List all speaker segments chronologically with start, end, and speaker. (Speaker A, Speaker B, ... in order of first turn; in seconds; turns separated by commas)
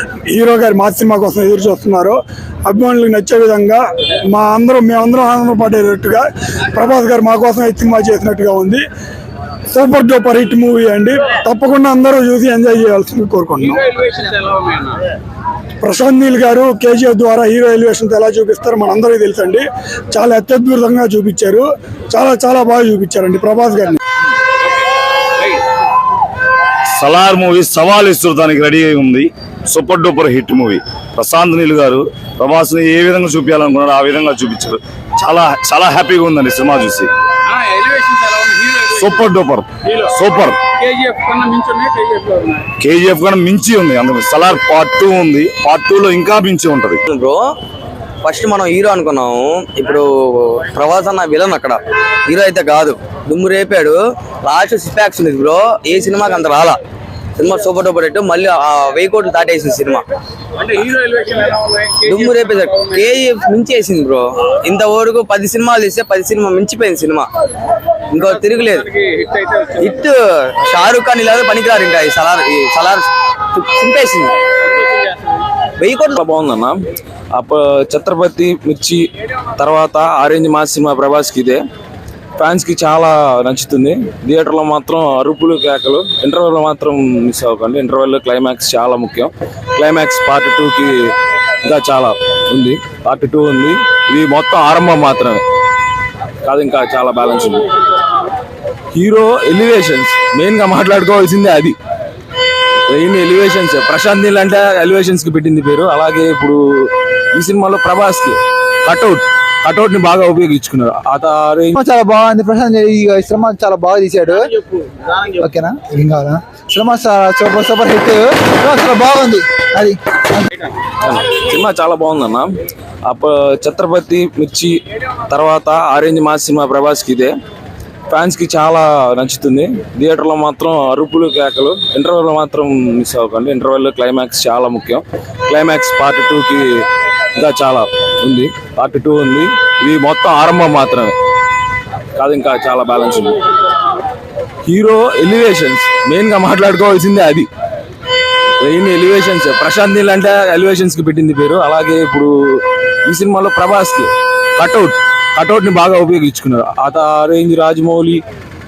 Speaker A: 0.3-8.8, Speaker A: 9.7-13.9, Speaker B: 13.9-14.9, Speaker A: 15.8-24.0, Speaker C: 27.0-37.1, Speaker B: 37.7-38.8, Speaker C: 38.7-40.6, Speaker B: 40.8-42.6, Speaker C: 42.8-47.0, Speaker D: 47.1-47.4, Speaker D: 48.2-56.8, Speaker D: 57.4-60.0, Speaker D: 60.6-61.0, Speaker B: 61.1-61.9, Speaker D: 61.9-67.3, Speaker D: 68.1-74.4, Speaker D: 75.8-76.2, Speaker E: 76.1-76.8, Speaker E: 77.3-81.6, Speaker E: 82.4-95.4, Speaker E: 96.4-97.7, Speaker E: 98.9-101.8, Speaker E: 102.9-111.8, Speaker F: 111.8-114.6, Speaker F: 115.4-120.5, Speaker E: 121.0-122.5, Speaker E: 123.0-127.3, Speaker E: 128.1-136.8, Speaker E: 137.3-141.2, Speaker E: 142.2-143.4, Speaker E: 144.6-147.5, Speaker E: 148.6-158.2